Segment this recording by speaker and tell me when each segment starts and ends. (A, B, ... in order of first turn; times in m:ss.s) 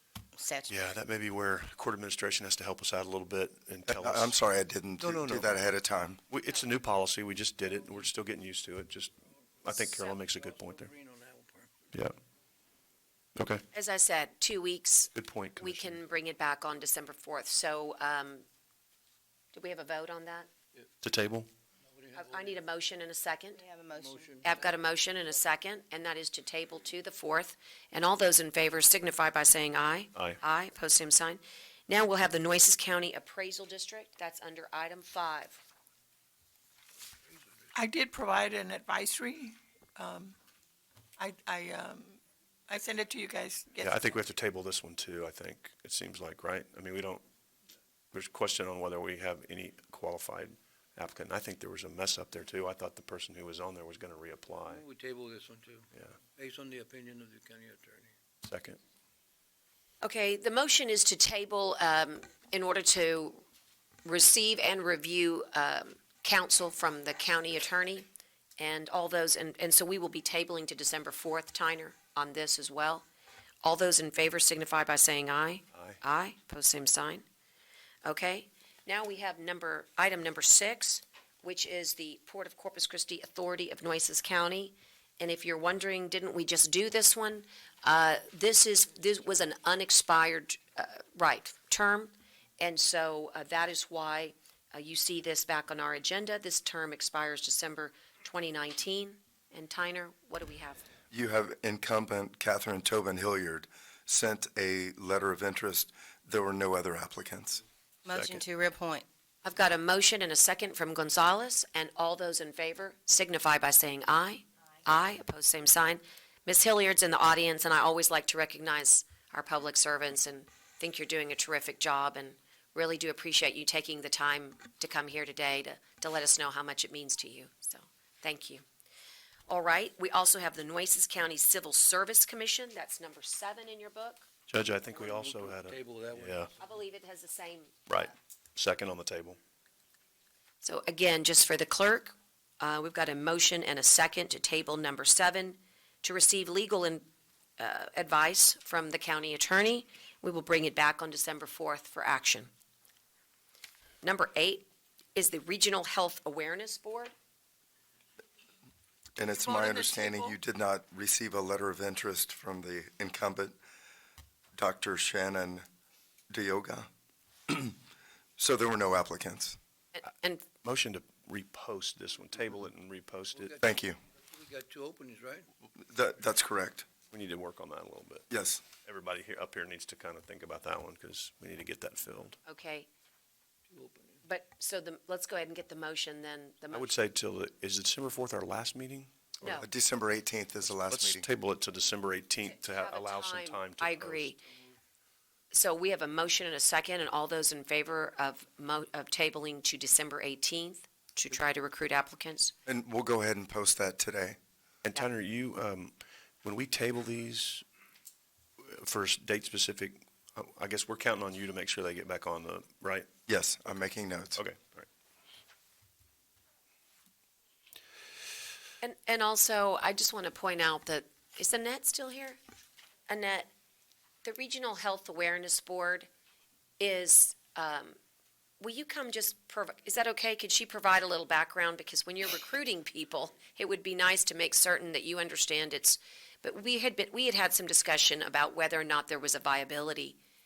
0:00.4-0:00.7 A
0:00.7-0:04.4 B
0:03.9-0:06.2 C
0:05.0-0:05.6 B
0:06.3-0:10.9 B
0:09.8-0:10.1 D
0:10.4-0:11.7 E
0:13.4-0:13.6 B
0:13.7-0:18.4 D
0:15.1-0:16.0 B
0:19.5-0:20.5 D
0:21.0-0:21.5 B
0:22.1-0:23.6 D
0:23.6-0:24.4 A
0:24.4-0:35.6 D
0:37.7-0:40.4 F
0:41.2-0:42.2 F
0:42.7-0:43.9 F
0:43.8-0:47.2 B
0:48.1-0:54.8 B
0:54.8-0:55.3 E
0:56.4-0:57.4 E
0:58.4-0:58.8 B
1:00.0-1:03.4 D
1:04.0-1:08.1 D
1:08.6-1:13.0 D
1:13.6-1:17.2 D
1:15.7-1:16.0 B
1:18.0-1:40.8 D
1:41.1-1:47.6 C
1:48.0-1:49.0 A
1:48.1-1:48.4 B
1:49.4-2:08.6 D
2:09.5-2:14.3 D
2:14.5-2:16.5 B
2:15.2-2:16.0 E
2:16.6-2:17.9 D
2:17.9-2:19.4 B
2:20.6-2:27.0 D
2:27.6-2:32.5 D
2:34.0-2:37.1 D
2:39.2-2:43.6 C
2:39.4-2:40.3 F
2:44.6-2:45.6 C
2:46.3-2:46.9 C
2:47.5-2:47.8 C
2:48.4-2:49.6 C
2:50.0-2:50.4 D
2:50.6-2:53.6 B
2:53.6-2:54.0 C
2:54.3-2:55.5 E
2:55.8-2:56.8 C
2:57.1-2:58.3 B
2:58.3-2:58.6 C
2:58.8-3:02.4 B
3:02.4-3:02.9 D
3:04.2-3:06.9 D
3:06.7-3:09.5 B
3:09.4-3:09.7 D
3:09.6-3:11.2 C
3:10.6-3:14.3 B
3:12.4-3:14.4 D
3:15.5-3:22.5 D
3:22.7-3:24.4 C
3:24.8-3:27.6 B
3:28.6-3:33.1 B
3:33.3-3:34.4 C
3:34.4-3:34.8 B
3:38.8-3:42.4 D
3:43.1-3:43.5 D
3:44.2-3:46.1 D
3:46.8-3:48.0 D
3:48.6-4:00.2 D